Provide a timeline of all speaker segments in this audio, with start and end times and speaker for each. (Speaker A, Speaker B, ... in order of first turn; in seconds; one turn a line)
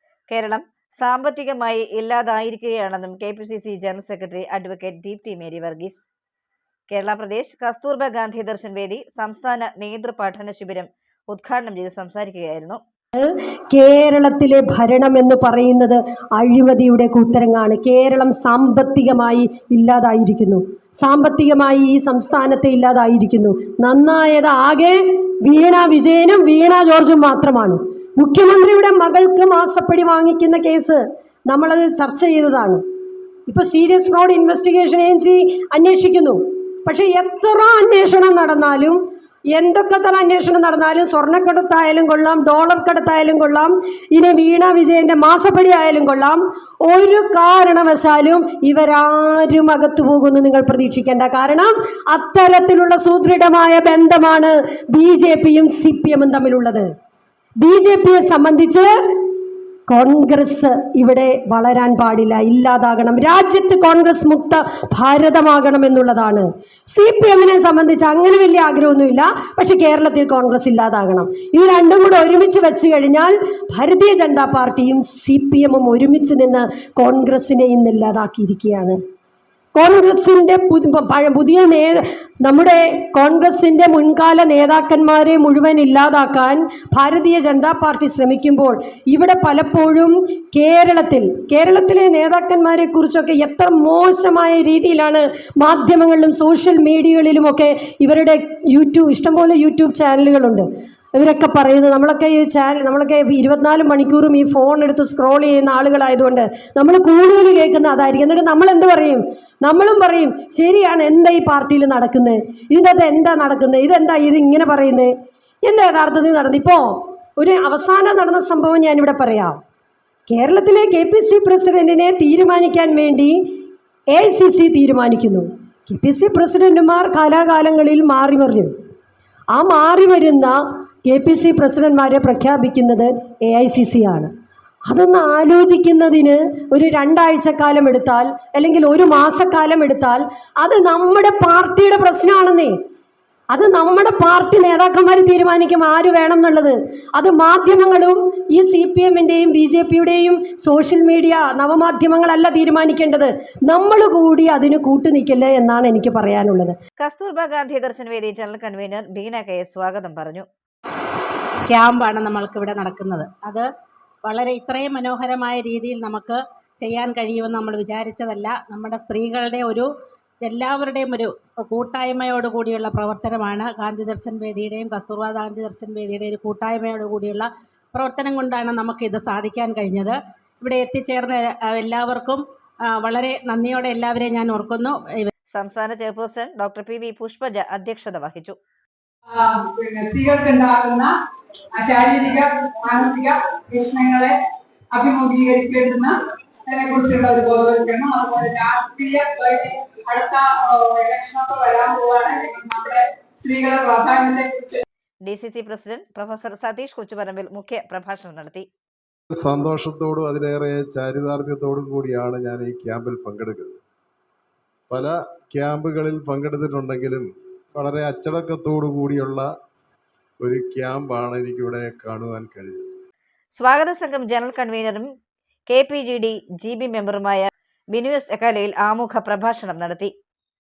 Speaker A: 0.3-6.1
Speaker A: 6.9-12.8
Speaker B: 13.2-32.8
Speaker B: 33.5-39.0
Speaker B: 39.6-56.9
Speaker B: 57.6-58.9
Speaker B: 59.9-79.0
Speaker B: 79.8-115.1
Speaker B: 115.6-119.6
Speaker B: 120.3-123.4
Speaker B: 124.1-128.7
Speaker B: 129.5-134.3
Speaker B: 134.9-142.8
Speaker B: 143.5-156.8
Speaker A: 157.0-160.5
Speaker C: 161.7-163.7
Speaker C: 164.2-169.9
Speaker C: 170.4-185.3
Speaker A: 185.5-188.6
Speaker D: 189.3-191.1
Speaker D: 191.8-194.3
Speaker D: 194.9-196.1
Speaker D: 196.7-204.8
Speaker A: 205.2-208.7
Speaker E: 209.3-213.8
Speaker E: 214.9-219.5
Speaker E: 220.4-222.8
Speaker A: 223.6-225.1
Speaker A: 225.7-230.1